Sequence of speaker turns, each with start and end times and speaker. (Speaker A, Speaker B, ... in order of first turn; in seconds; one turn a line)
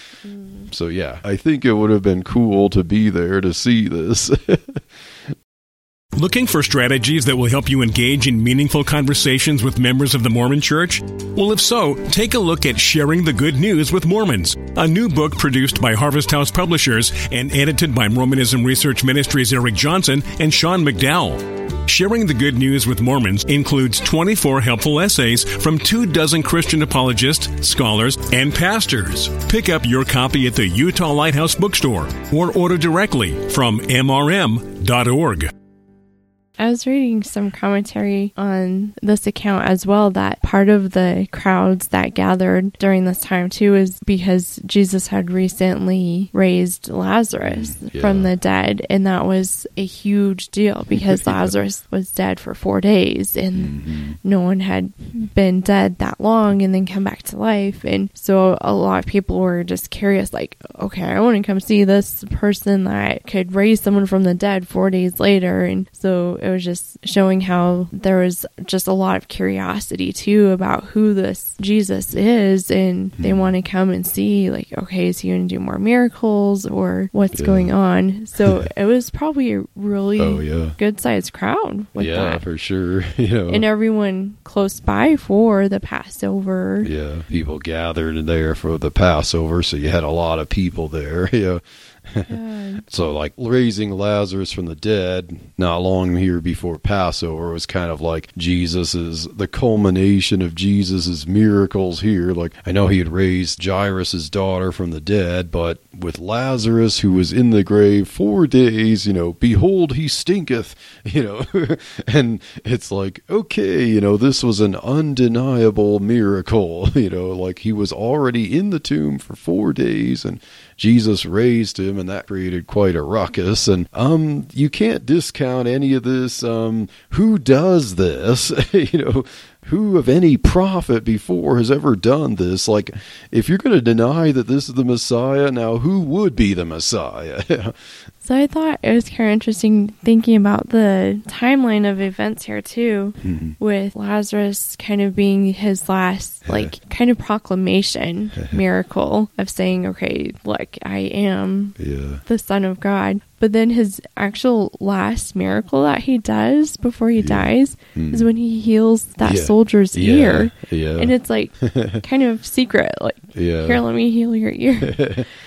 Speaker A: 0.2-0.7
Speaker B: 0.7-4.8
Speaker C: 6.2-35.5
Speaker A: 36.6-82.4
Speaker B: 47.5-48.3
Speaker B: 51.1-51.5
Speaker B: 53.6-54.2
Speaker B: 73.2-73.5
Speaker B: 77.3-77.7
Speaker B: 80.2-80.8
Speaker B: 82.0-83.6
Speaker A: 83.5-86.9
Speaker B: 86.8-92.3
Speaker A: 92.3-92.8
Speaker B: 92.9-137.7
Speaker A: 138.2-151.7
Speaker B: 143.2-143.6
Speaker B: 146.4-146.7
Speaker B: 151.8-152.2
Speaker A: 152.2-165.0
Speaker B: 157.2-158.2
Speaker B: 159.2-162.0
Speaker B: 163.3-163.8
Speaker B: 164.8-165.3